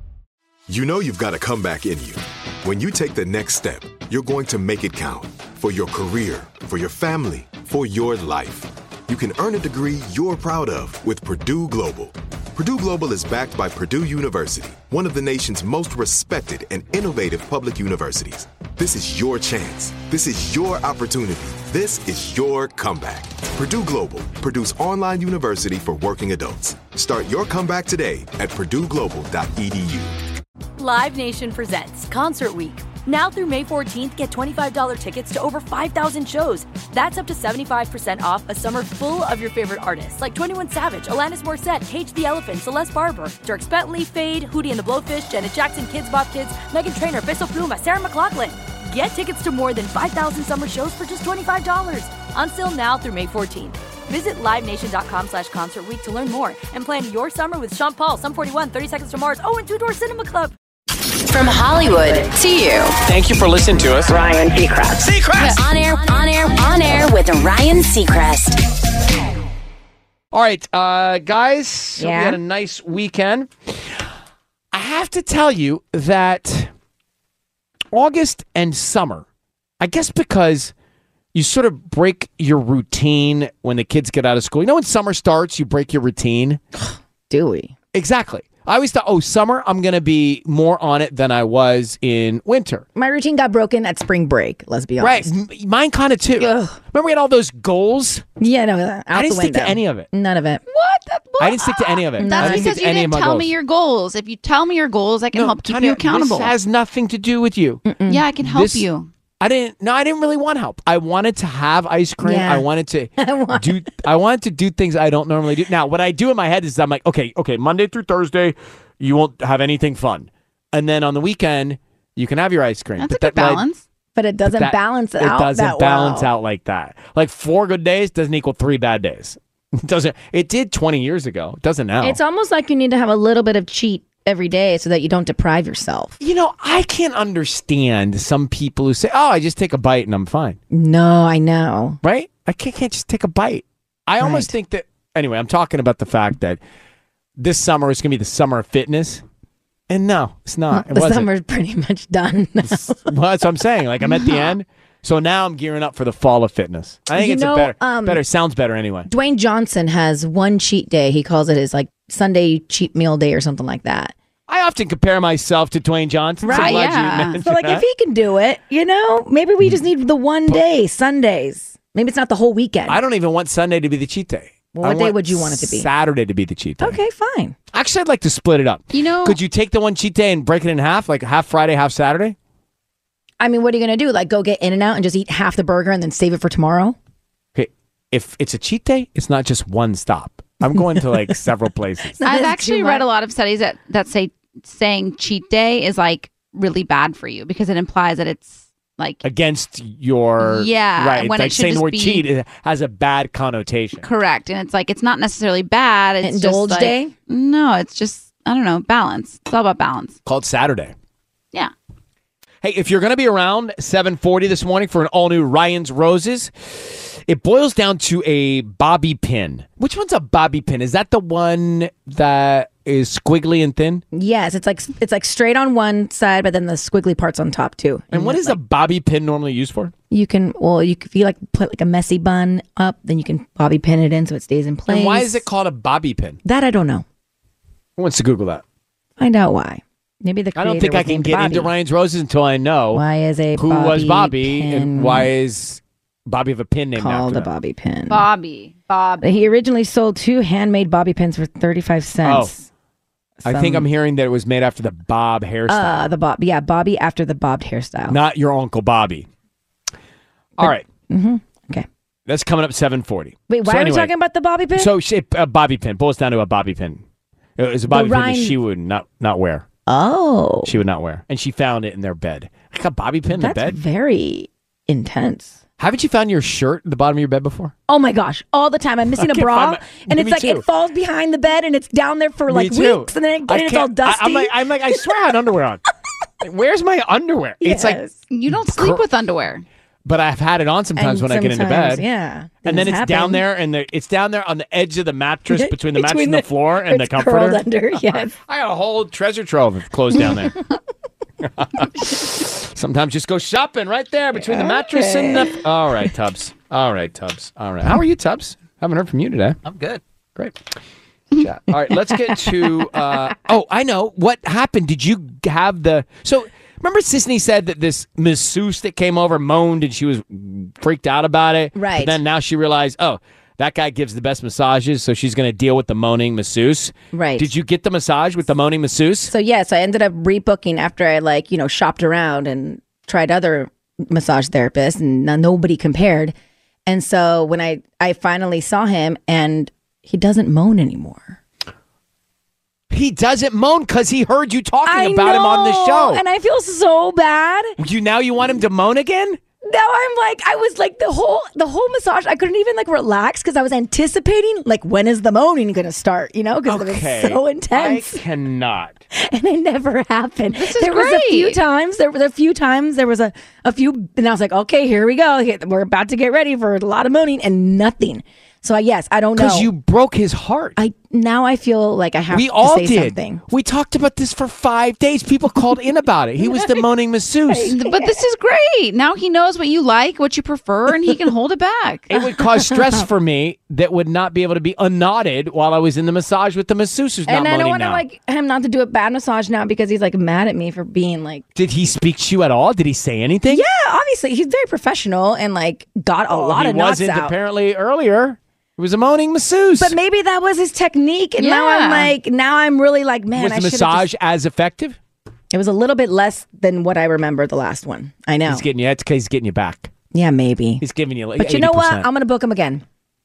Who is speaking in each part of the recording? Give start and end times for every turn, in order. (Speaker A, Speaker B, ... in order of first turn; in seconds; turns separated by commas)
Speaker A: 0.7-30.2, Speaker B: 30.8-60.5, Speaker C: 61.2-63.0, Speaker D: 63.0-64.2, Speaker C: 64.1-68.6, Speaker D: 65.0-65.6, Speaker D: 70.3-74.1, Speaker E: 72.0-72.4, Speaker D: 74.7-76.7, Speaker D: 77.9-79.2, Speaker D: 79.8-80.7, Speaker D: 81.3-86.6, Speaker E: 87.3-87.7, Speaker D: 87.9-92.8, Speaker E: 93.0-95.3, Speaker D: 95.0-98.2, Speaker E: 96.4-96.8, Speaker E: 98.4-100.6, Speaker D: 99.1-100.1, Speaker F: 100.7-106.5, Speaker D: 101.4-103.5, Speaker E: 102.2-102.8, Speaker D: 105.3-107.8, Speaker E: 107.8-108.2, Speaker F: 108.1-109.1, Speaker D: 108.4-108.9, Speaker D: 109.4-123.6, Speaker E: 112.2-112.7, Speaker E: 113.2-113.9, Speaker F: 123.0-123.8, Speaker E: 124.2-126.3, Speaker D: 124.5-132.2, Speaker E: 132.0-136.2, Speaker D: 136.2-140.6, Speaker E: 140.7-142.0, Speaker D: 142.0-146.6, Speaker E: 144.2-144.5, Speaker D: 147.4-149.2, Speaker D: 149.9-151.3, Speaker E: 150.7-153.1, Speaker D: 152.6-159.1, Speaker F: 154.2-154.4, Speaker E: 157.1-158.2, Speaker E: 159.1-164.1, Speaker D: 164.5-167.8, Speaker E: 166.4-166.9, Speaker F: 166.5-167.4, Speaker E: 167.4-173.0, Speaker D: 172.9-177.0, Speaker E: 174.7-175.9, Speaker E: 176.8-177.6, Speaker D: 177.7-182.4, Speaker F: 178.9-179.4, Speaker E: 183.4-187.0, Speaker D: 187.6-192.1, Speaker E: 192.1-193.0, Speaker F: 192.2-199.2, Speaker D: 199.2-204.1, Speaker F: 200.4-202.2, Speaker F: 204.0-210.2, Speaker E: 206.2-207.1, Speaker D: 210.2-210.9, Speaker D: 212.6-224.0, Speaker E: 224.1-228.6, Speaker D: 228.1-229.9, Speaker E: 230.1-235.5, Speaker D: 234.9-236.4, Speaker E: 236.4-237.1, Speaker D: 238.0-238.6, Speaker E: 239.2-241.7, Speaker D: 240.6-243.0, Speaker E: 242.9-245.3, Speaker D: 243.6-247.5, Speaker E: 247.0-248.3, Speaker F: 248.1-249.3, Speaker E: 249.2-252.7, Speaker D: 252.2-252.5, Speaker E: 253.4-253.9, Speaker D: 253.4-256.1, Speaker E: 255.7-258.2, Speaker D: 258.1-259.3, Speaker D: 260.6-260.9, Speaker E: 260.6-261.9, Speaker D: 262.3-264.1, Speaker E: 263.5-264.9, Speaker D: 264.8-267.0, Speaker D: 267.6-269.7, Speaker E: 267.9-268.6, Speaker E: 269.9-270.7, Speaker D: 270.6-273.8, Speaker E: 273.3-275.6, Speaker D: 275.8-277.7, Speaker E: 277.9-285.0, Speaker D: 279.2-280.6, Speaker D: 282.5-285.8, Speaker D: 286.4-288.0, Speaker E: 287.6-288.1, Speaker F: 288.3-289.6, Speaker D: 288.5-289.0, Speaker D: 290.1-292.1, Speaker E: 291.0-293.4, Speaker D: 292.6-300.6, Speaker E: 295.5-298.4, Speaker D: 301.4-310.8, Speaker E: 304.4-305.6, Speaker D: 311.4-329.3, Speaker E: 321.8-322.2, Speaker E: 327.1-327.5, Speaker E: 329.3-336.3, Speaker E: 336.9-341.4, Speaker D: 342.9-346.2, Speaker E: 344.9-347.8, Speaker D: 347.8-349.4, Speaker E: 349.6-358.2, Speaker D: 356.7-359.0, Speaker E: 359.1-369.7, Speaker F: 360.5-361.6, Speaker D: 369.4-370.8, Speaker E: 370.8-373.4, Speaker D: 372.3-377.8, Speaker E: 377.5-378.2, Speaker F: 377.7-382.1, Speaker D: 382.1-388.0, Speaker E: 382.1-383.1, Speaker E: 387.3-391.4, Speaker D: 391.6-393.6, Speaker E: 393.5-397.3, Speaker D: 396.3-400.0, Speaker E: 399.8-404.1, Speaker F: 401.4-402.1, Speaker D: 403.3-405.0, Speaker E: 405.5-408.6, Speaker D: 408.5-409.9, Speaker E: 410.1-410.8, Speaker D: 410.8-412.1, Speaker E: 411.4-412.8